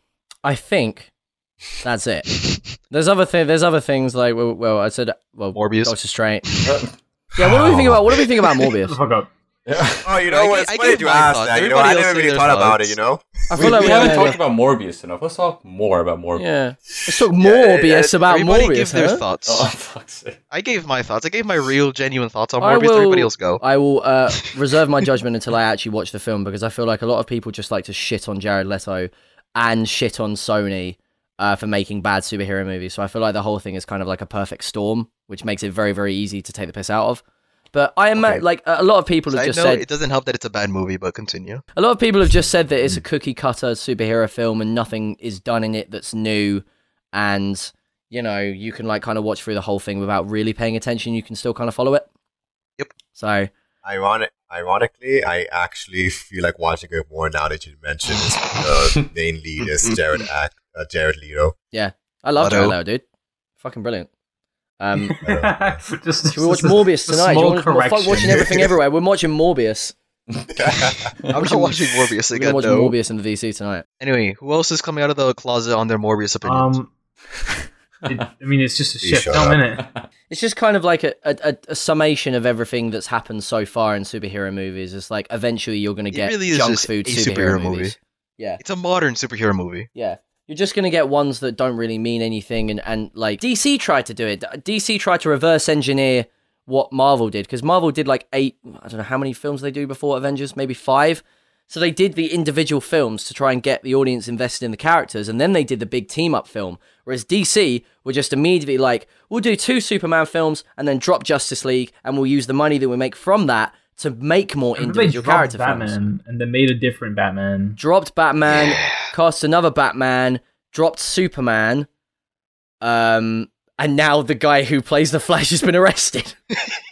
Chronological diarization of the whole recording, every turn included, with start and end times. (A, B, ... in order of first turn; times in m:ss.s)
0:00.4-0:01.1 A
0:01.8-0:02.4 A
0:02.9-0:06.6 A
0:05.5-0:05.9 B
0:06.6-0:06.9 C
0:07.4-0:09.0 A
0:07.5-0:07.9 D
0:08.8-0:09.3 E
0:09.7-0:10.1 C
0:10.0-0:13.8 D
0:10.3-0:12.9 B
0:13.5-0:14.4 A
0:13.5-0:16.5 C
0:13.9-0:14.3 B
0:16.4-0:19.2 A
0:17.4-0:18.1 D
0:17.9-0:19.7 B
0:19.4-0:20.4 C
0:20.5-0:23.6 B
0:22.6-0:37.2 A
0:37.7-0:39.8 A
0:38.2-0:38.4 B
0:39.3-0:41.6 B
0:41.7-0:52.0 A
0:53.1-0:53.5 A
0:53.8-1:01.5 D
0:59.6-1:00.0 B
1:01.7-1:03.0 A
1:02.4-1:02.8 B
1:03.6-1:04.1 A
1:04.8-1:05.2 A
1:04.9-1:08.7 E
1:05.2-1:05.8 D
1:06.3-1:09.9 A
1:10.5-1:11.1 D
1:11.3-1:13.0 B
1:11.4-1:11.8 A
1:12.3-1:13.8 A
1:14.0-1:16.8 B
1:16.4-1:16.9 E
1:18.0-1:19.8 E
1:19.0-1:19.6 D
1:20.3-1:28.6 A
1:26.1-1:28.0 B
1:28.6-1:29.9 B
1:29.9-1:56.0 A
1:54.7-1:57.8 E
1:57.8-2:01.9 A
1:58.5-1:59.1 B
2:02.8-2:06.4 A